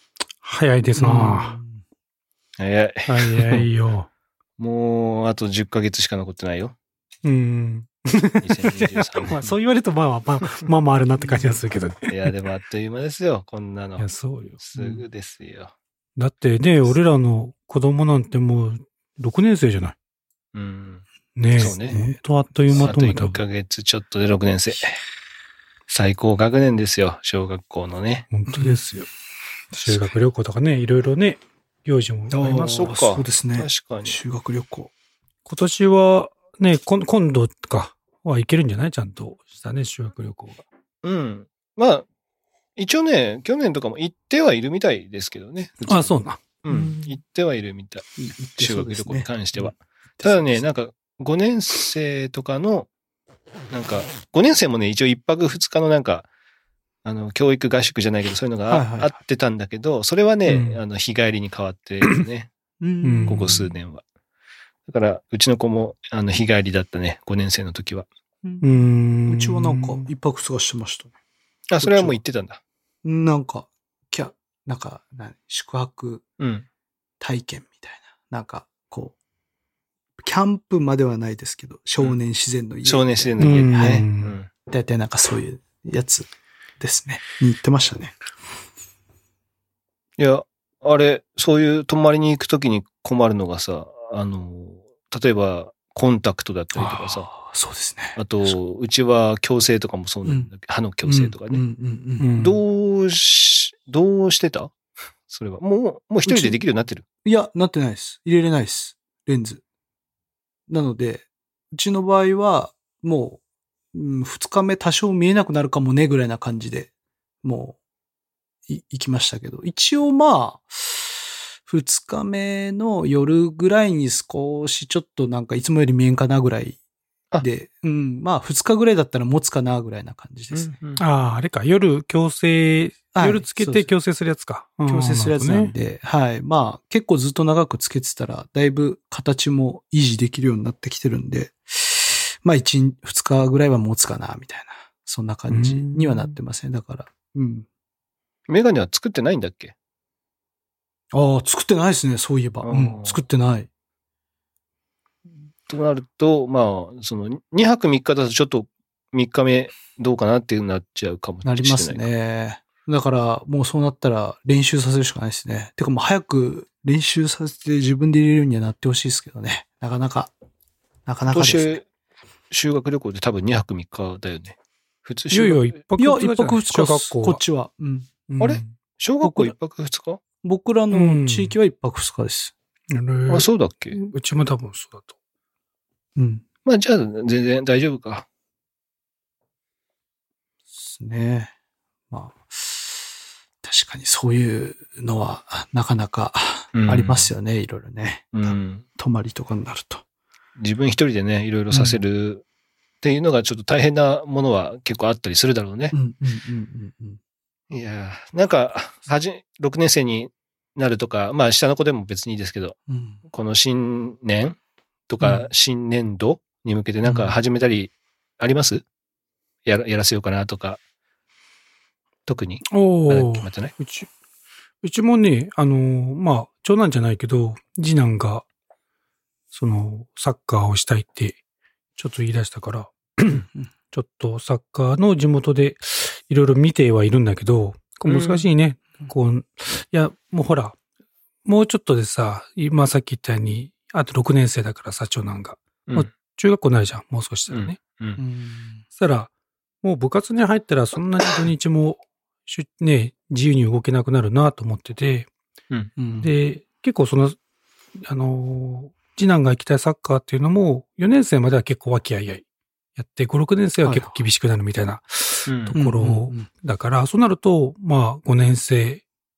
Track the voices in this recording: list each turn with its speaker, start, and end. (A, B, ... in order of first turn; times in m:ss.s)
0:00.4-0:01.6 A
0:01.0-0:01.8 B
0:02.6-0:03.7 C
0:03.1-0:04.1 A
0:04.6-0:06.8 C
0:07.2-0:12.3 A
0:08.4-0:09.6 C
0:11.2-0:11.6 B
0:12.1-0:15.7 C
0:14.0-0:15.0 A
0:16.2-0:20.0 A
0:20.5-0:21.0 C
0:21.4-0:23.4 A
0:21.6-0:22.0 C
0:21.7-0:22.9 B
0:22.7-0:25.0 C
0:25.9-0:28.3 C
0:28.3-0:29.1 A
0:28.5-0:28.8 B
0:29.7-0:30.1 B
0:29.8-0:32.9 A
0:32.3-0:34.9 B
0:32.7-0:34.2 C
0:35.5-0:40.6 A
0:41.0-0:42.1 C
0:42.8-0:52.9 C
0:45.8-0:46.4 A
0:46.7-0:47.0 B
0:48.2-0:50.6 B
0:53.7-0:56.3 C
0:57.0-1:02.5 C
0:58.7-0:59.1 B
1:00.5-1:00.8 A
1:02.8-1:03.6 B
1:03.0-1:03.5 A
1:03.3-1:04.0 C
1:04.9-1:08.1 C
1:08.4-1:11.1 B
1:08.6-1:10.1 A
1:11.7-1:12.6 C
1:11.8-1:12.2 B
1:13.0-1:16.2 B
1:16.4-1:16.7 C
1:17.2-1:19.2 B
1:20.2-1:26.3 B
1:22.8-1:24.5 C
1:23.4-1:24.4 A
1:26.8-1:28.2 B
1:30.2-1:37.3 C
1:36.8-1:38.5 B
1:38.2-1:41.6 C
1:40.2-1:40.5 B
1:41.0-1:42.3 B
1:42.2-1:42.6 A
1:42.4-1:44.7 C
1:45.3-1:47.0 C
1:46.2-1:46.6 B
1:47.2-1:49.6 B
1:50.7-1:53.4 B
1:53.9-1:56.9 B
1:57.4-1:57.8 B
1:58.7-2:06.8 B
2:07.4-2:10.8 B
2:10.5-2:11.0 C
2:11.0-2:15.7 A
2:13.1-2:13.9 B
2:14.9-2:27.7 B
2:25.5-2:26.4 A
2:28.5-2:29.7 C
2:31.1-2:33.7 B
2:32.6-2:33.2 C
2:35.7-2:42.1 C
2:41.4-2:50.3 B
2:51.1-2:51.8 B
2:51.3-2:51.8 C
2:52.5-2:55.8 C
2:55.3-2:57.4 A
2:56.0-2:58.2 B
2:58.3-2:58.8 A
2:58.4-3:00.2 C
2:59.2-2:59.6 B
3:00.4-3:02.5 B
3:00.9-3:01.6 A
3:02.9-3:05.1 A
3:03.3-3:04.0 C
3:06.2-3:06.4 B
3:06.6-3:08.3 C
3:10.8-3:11.5 B
3:12.1-3:13.1 B
3:13.6-3:20.0 B
3:16.7-3:17.3 C
3:18.3-3:18.8 C
3:20.6-3:22.4 C
3:21.7-3:22.0 B
3:23.0-3:26.0 C
3:25.9-3:27.2 B
3:27.7-3:32.8 C
3:32.9-3:33.2 B
3:33.3-3:34.6 C
3:35.1-3:38.8 C
3:39.7-3:40.8 C
3:42.3-3:43.7 C
3:42.7-3:44.1 A
3:44.8-3:48.5 A
3:49.5-3:51.4 A
3:52.0-4:00.8 A
3:58.1-3:58.5 C
4:01.4-4:07.8 A
4:07.5-4:08.2 C
4:08.2-4:08.8 B
4:09.0-4:09.3 A
4:09.8-4:15.3 A
4:16.0-4:16.3 B
4:16.2-4:17.4 A
4:18.0-4:22.4 A
4:23.0-4:29.0 A
4:23.8-4:24.2 B
4:25.5-4:25.8 C
4:25.7-4:26.5 B